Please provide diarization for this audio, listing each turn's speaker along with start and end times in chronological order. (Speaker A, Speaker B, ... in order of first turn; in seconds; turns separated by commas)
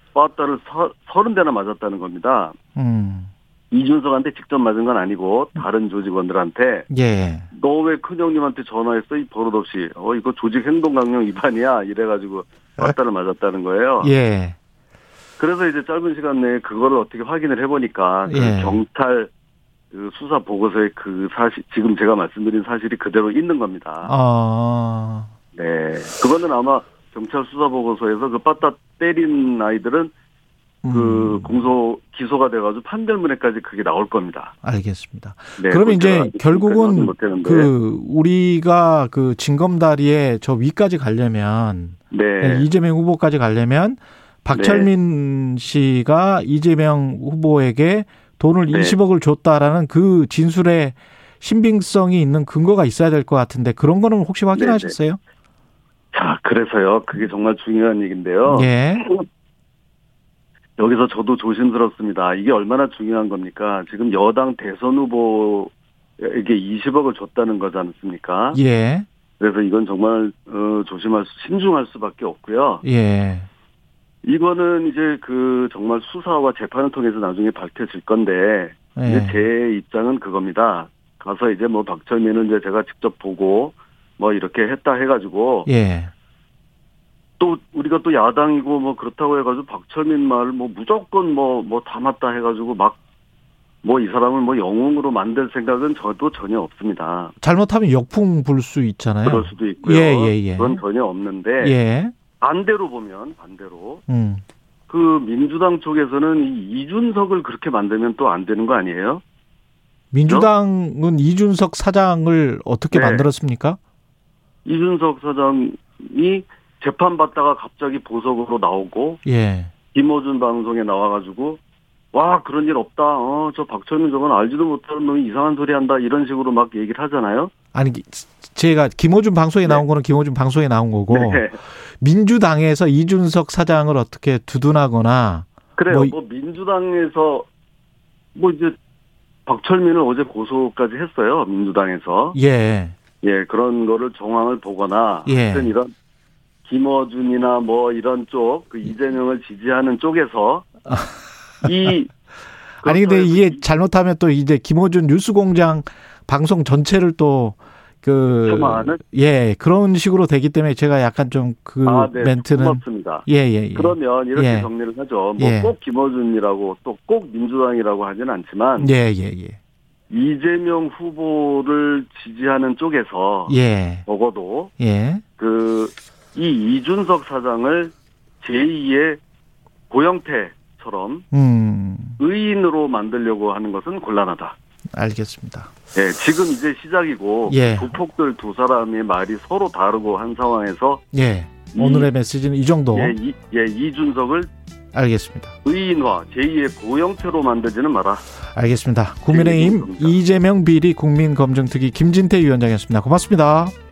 Speaker A: 0.1-2.6, Speaker B: 2.8-3.3, Speaker A: 3.7-6.9, Speaker B: 6.9-7.5, Speaker A: 7.5-14.1, Speaker B: 14.0-14.6, Speaker A: 15.4-19.3, Speaker B: 18.3-18.8, Speaker A: 19.9-24.1, Speaker B: 24.1-25.3, Speaker A: 25.5-30.1, Speaker B: 30.8-31.7, Speaker A: 30.9-34.5, Speaker B: 34.6-55.2, Speaker A: 35.6-37.7, Speaker A: 42.1-42.7, Speaker A: 44.5-44.9, Speaker A: 48.7-49.0, Speaker A: 54.5-54.9, Speaker A: 56.1-59.2, Speaker B: 58.5-59.0, Speaker A: 60.8-68.6, Speaker B: 68.5-69.1, Speaker A: 69.4-72.8, Speaker B: 72.8-73.5, Speaker A: 74.2-85.7, Speaker B: 79.0-79.4, Speaker B: 85.7-86.1, Speaker A: 87.4-93.0, Speaker A: 93.8-97.3, Speaker B: 97.4-100.8, Speaker A: 99.2-101.8, Speaker B: 101.6-102.1, Speaker A: 102.4-104.0, Speaker B: 104.1-104.4, Speaker A: 104.9-109.2, Speaker B: 110.1-113.8, Speaker A: 110.2-110.5, Speaker A: 112.9-113.3, Speaker A: 114.7-119.2, Speaker B: 119.2-119.7, Speaker A: 119.9-121.6, Speaker A: 122.1-127.5, Speaker B: 127.7-131.5, Speaker A: 131.1-131.6, Speaker B: 132.0-136.1, Speaker A: 135.8-137.5, Speaker A: 138.3-138.8, Speaker A: 139.4-142.4, Speaker B: 142.3-142.9, Speaker A: 143.2-145.9, Speaker B: 145.3-145.7, Speaker A: 146.6-150.7, Speaker B: 150.9-151.7, Speaker A: 151.6-152.1, Speaker B: 152.8-164.7, Speaker A: 152.8-153.6, Speaker A: 158.5-159.0, Speaker A: 161.8-168.9, Speaker B: 165.4-165.7, Speaker B: 168.8-169.6, Speaker A: 170.1-174.7, Speaker B: 173.5-174.1, Speaker B: 174.8-175.2, Speaker A: 175.4-179.2, Speaker A: 179.9-181.3, Speaker B: 181.3-182.2, Speaker A: 182.2-184.6, Speaker B: 184.9-185.7, Speaker A: 185.9-191.0, Speaker B: 187.5-187.9, Speaker B: 191.1-193.2, Speaker A: 191.7-192.1, Speaker A: 192.9-194.5, Speaker B: 194.9-195.5, Speaker A: 195.7-198.2, Speaker B: 198.6-203.7, Speaker A: 199.3-200.2